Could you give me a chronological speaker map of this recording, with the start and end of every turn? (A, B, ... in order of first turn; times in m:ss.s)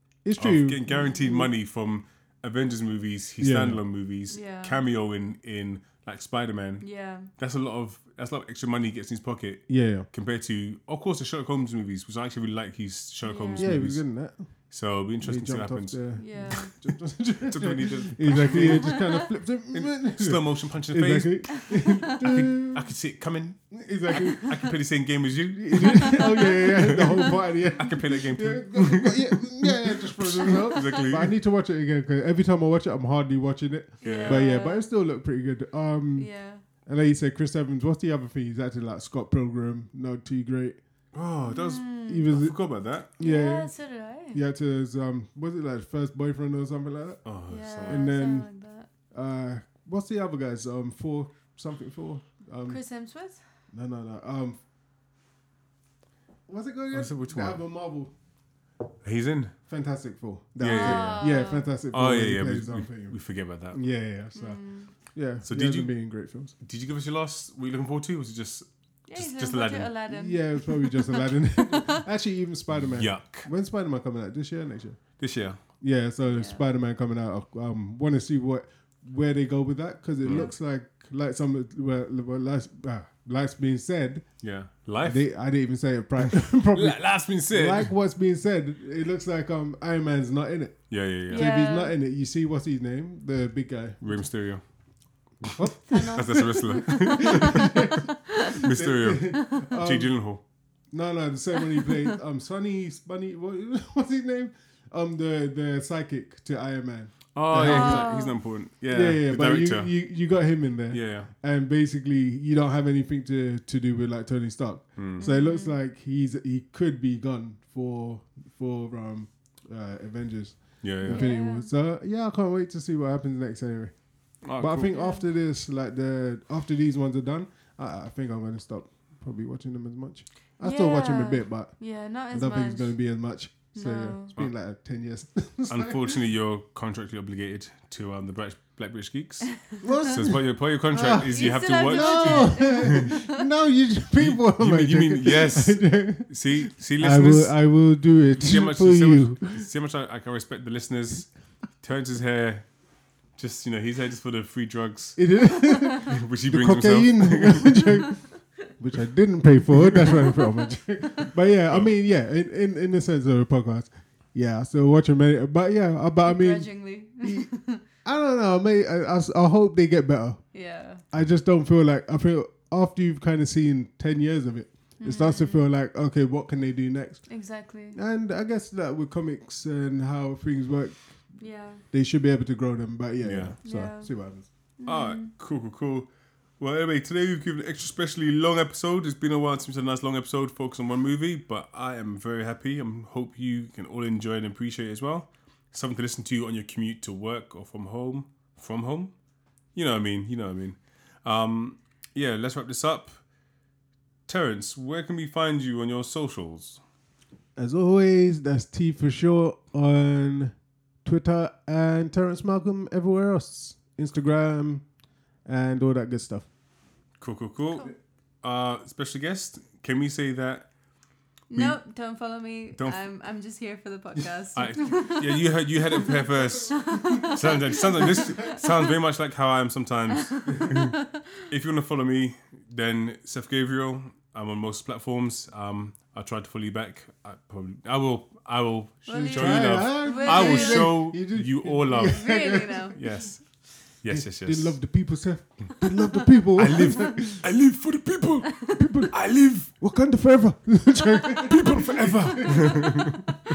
0:00.2-0:01.5 A
0:00.4-0:16.7 B
0:03.4-0:03.8 A
0:04.3-0:04.8 C
0:06.8-0:07.3 C
0:09.7-0:10.1 A
0:13.2-0:13.7 C
0:13.6-0:22.9 A
0:16.2-0:16.7 C
0:17.4-0:31.4 B
0:18.5-0:19.1 C
0:23.7-0:24.7 A
0:25.5-0:40.8 A
0:25.8-0:27.3 C
0:30.5-0:31.0 C
0:34.0-0:34.9 C
0:34.0-0:34.4 B
0:36.2-0:36.6 C
0:41.1-0:43.1 B
0:41.4-0:42.3 C
0:42.1-0:43.7 A
0:43.2-0:44.4 C
0:44.3-0:48.6 A
0:47.2-0:48.0 B
0:47.5-0:48.9 C
0:49.1-0:52.8 A
0:52.7-0:53.5 C
0:53.7-0:54.6 A
0:56.5-0:58.1 A
0:56.9-0:57.6 B
0:59.0-0:59.6 B
0:59.7-1:06.5 A
1:00.6-1:01.3 B
1:00.7-1:01.7 C
1:01.9-1:03.8 B
1:04.3-1:04.9 C
1:05.4-1:09.9 B
1:09.1-1:12.0 C
1:10.1-1:34.2 A
1:12.9-1:13.5 B
1:15.2-1:15.6 B
1:16.3-1:16.6 C
1:20.2-1:20.5 B
1:20.2-1:20.6 C
1:24.4-1:25.4 B
1:26.3-1:27.9 B
1:30.9-1:31.5 B
1:31.3-1:31.9 C
1:34.0-1:34.6 B
1:35.4-1:40.4 B
1:35.5-1:40.3 A
1:35.9-1:37.6 C
1:40.9-2:16.2 A
1:47.3-1:50.0 B
1:47.6-1:48.4 C
1:50.9-1:51.3 B
1:55.0-1:55.3 B
1:55.2-1:55.8 C
2:00.8-2:01.3 B
2:01.1-2:01.7 C
2:04.4-2:04.9 B
2:04.8-2:05.2 C
2:10.6-2:14.3 C
2:15.7-2:23.1 B
2:19.8-2:29.6 A
2:21.2-2:23.4 C
2:24.1-2:32.7 B
2:33.3-2:38.0 B
2:35.2-2:57.4 A
2:46.2-2:47.8 C
2:50.5-2:51.0 C
2:55.0-2:55.7 C
2:57.3-2:58.0 C
2:57.9-3:04.5 A
3:01.4-3:01.8 C
3:03.2-3:03.6 B
3:03.6-3:04.2 C
3:04.8-3:05.3 C
3:04.8-3:19.1 B
3:19.7-3:23.2 B
3:24.3-3:26.8 B
3:27.6-3:34.9 A
3:35.4-3:36.5 A
3:37.2-3:40.7 B
3:41.5-3:48.6 C
3:41.5-3:41.8 B
3:42.8-3:43.0 B
3:44.5-4:02.4 B
3:50.1-3:51.4 C
3:59.0-4:01.0 C
3:59.1-4:03.0 A
4:02.0-4:03.0 C
4:02.9-4:04.8 B
4:04.1-4:07.4 A
4:06.6-4:09.7 B
4:08.8-4:13.2 A
4:11.4-4:13.3 B